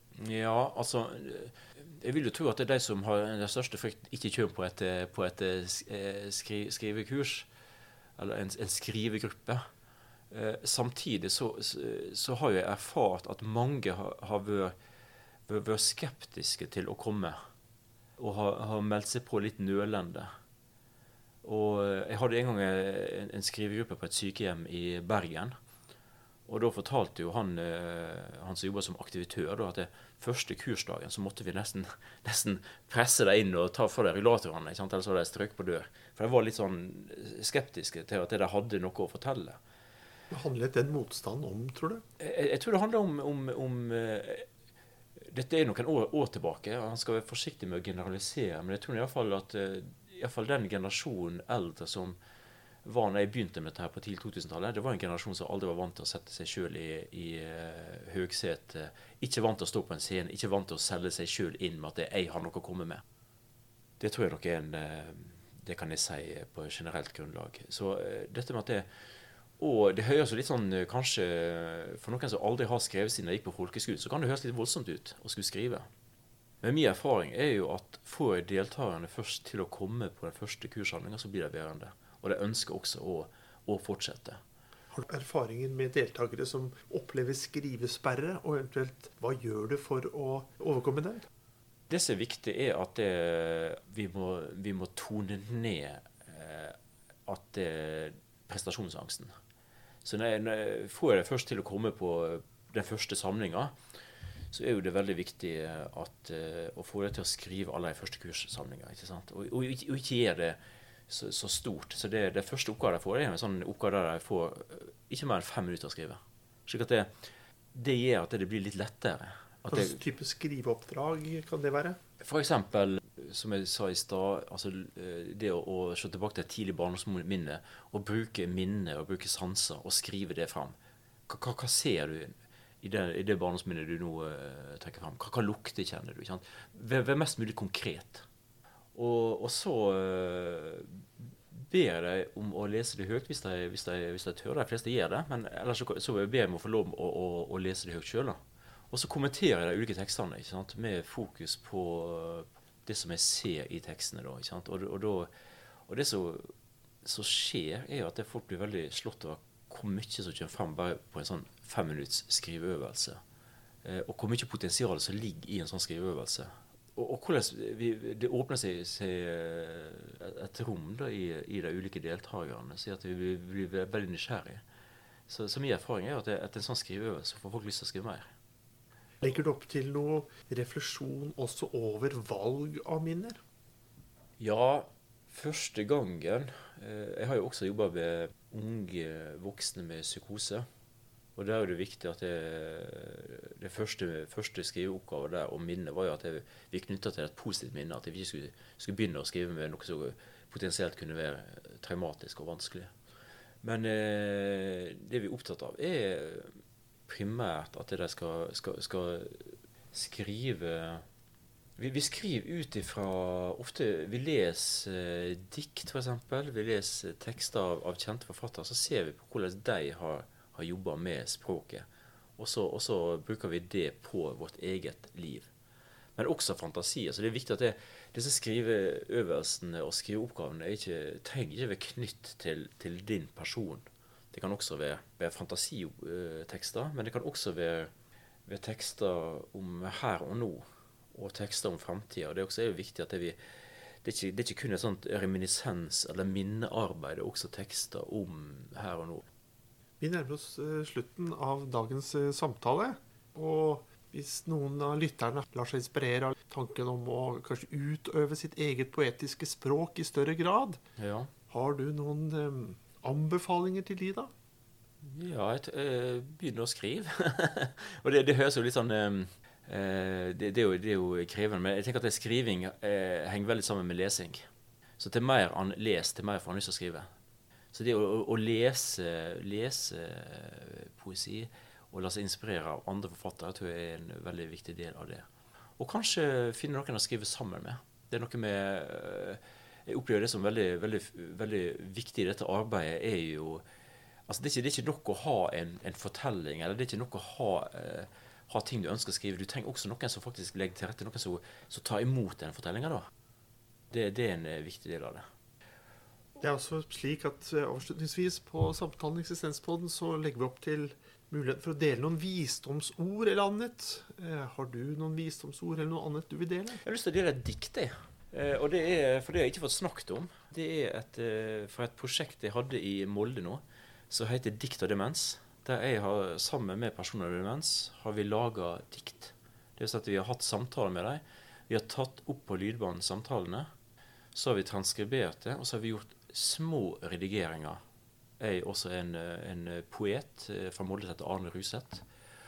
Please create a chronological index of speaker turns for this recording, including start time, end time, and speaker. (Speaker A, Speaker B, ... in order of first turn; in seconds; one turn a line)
Speaker A: 0.2-7.5
Speaker A: 8.2-9.6
Speaker A: 10.3-14.7
Speaker A: 15.5-17.4
Speaker A: 18.2-20.3
Speaker A: 21.4-25.5
Speaker A: 26.5-39.6
Speaker B: 40.3-42.0
Speaker A: 42.2-44.5
Speaker A: 45.2-52.2
Speaker A: 52.8-63.0
Speaker A: 64.0-68.9
Speaker A: 69.6-75.9
Speaker A: 76.6-84.4
Speaker B: 84.9-91.3
Speaker A: 91.9-99.3
Speaker A: 100.0-103.7
Speaker A: 104.5-110.6
Speaker A: 111.1-120.0
Speaker B: 119.7-122.0
Speaker A: 122.2-130.7
Speaker A: 131.3-138.2
Speaker A: 138.9-148.4
Speaker A: 148.9-155.3
Speaker A: 155.9-156.5
Speaker A: 157.0-163.2
Speaker A: 163.8-174.6
Speaker A: 175.3-178.3
Speaker B: 179.2-183.4
Speaker A: 184.4-190.7
Speaker A: 191.3-202.9
Speaker A: 203.6-211.0
Speaker A: 211.8-221.9
Speaker A: 222.4-225.5
Speaker A: 226.2-237.9
Speaker A: 238.5-243.4
Speaker A: 244.0-249.2
Speaker B: 250.0-260.8
Speaker A: 261.0-261.3
Speaker B: 261.5-264.3
Speaker A: 265.0-274.5
Speaker A: 275.0-277.1
Speaker A: 277.7-285.2
Speaker A: 285.8-293.6
Speaker A: 294.3-303.1
Speaker A: 303.9-305.2
Speaker B: 306.4-316.8
Speaker A: 316.8-333.7
Speaker A: 334.3-337.8
Speaker A: 338.4-342.0